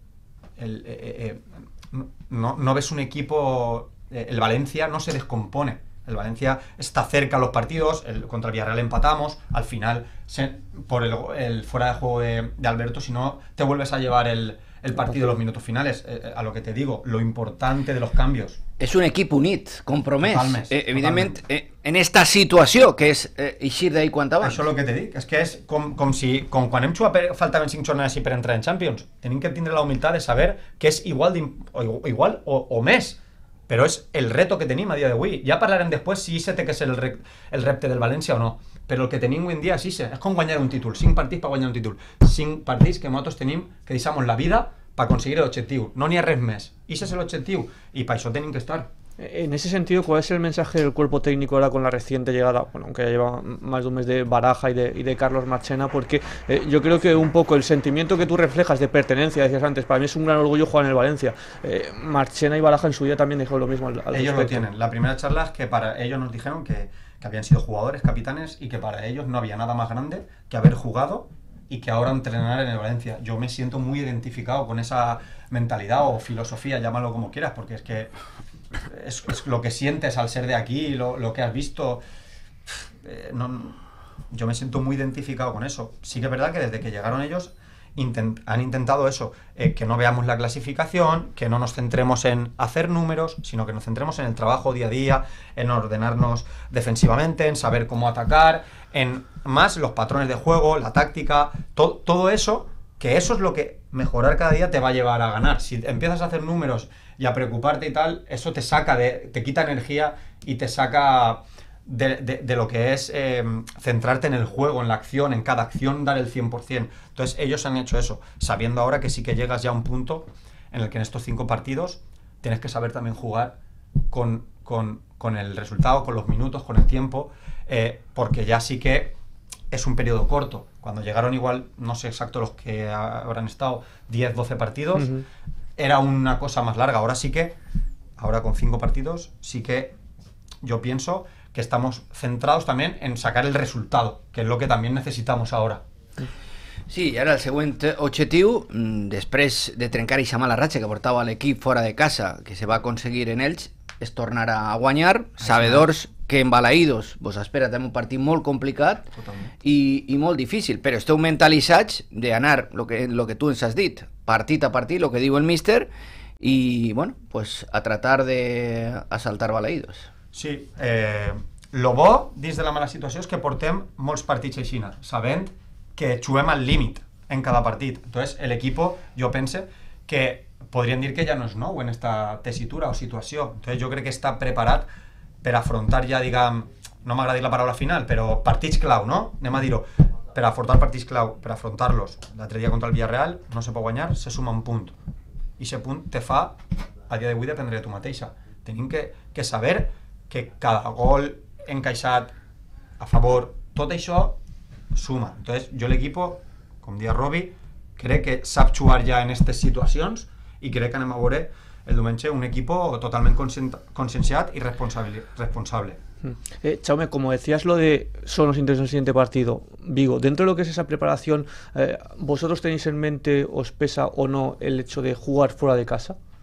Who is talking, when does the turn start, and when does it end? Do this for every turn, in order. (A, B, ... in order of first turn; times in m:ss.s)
0:00.6-0:18.6 A
0:18.8-0:24.6 B
0:20.2-0:21.4 A
0:24.4-0:48.9 A
0:49.2-1:04.6 C
1:04.1-1:18.1 A
1:18.8-1:22.0 A
1:22.7-2:03.6 A
2:04.1-2:09.1 A
2:09.7-2:15.1 A
2:15.0-2:15.2 C
2:15.8-2:17.5 A
2:18.2-2:19.9 A
2:20.6-2:25.8 A
2:26.9-2:39.1 B
2:35.4-2:35.9 A
2:39.2-2:39.5 A
2:39.6-2:50.1 B
2:50.3-3:04.8 A
3:05.4-3:14.9 A
3:15.6-3:16.6 A
3:17.1-3:22.3 A
3:23.0-3:24.4 A
3:24.9-3:36.0 A
3:36.3-3:46.2 C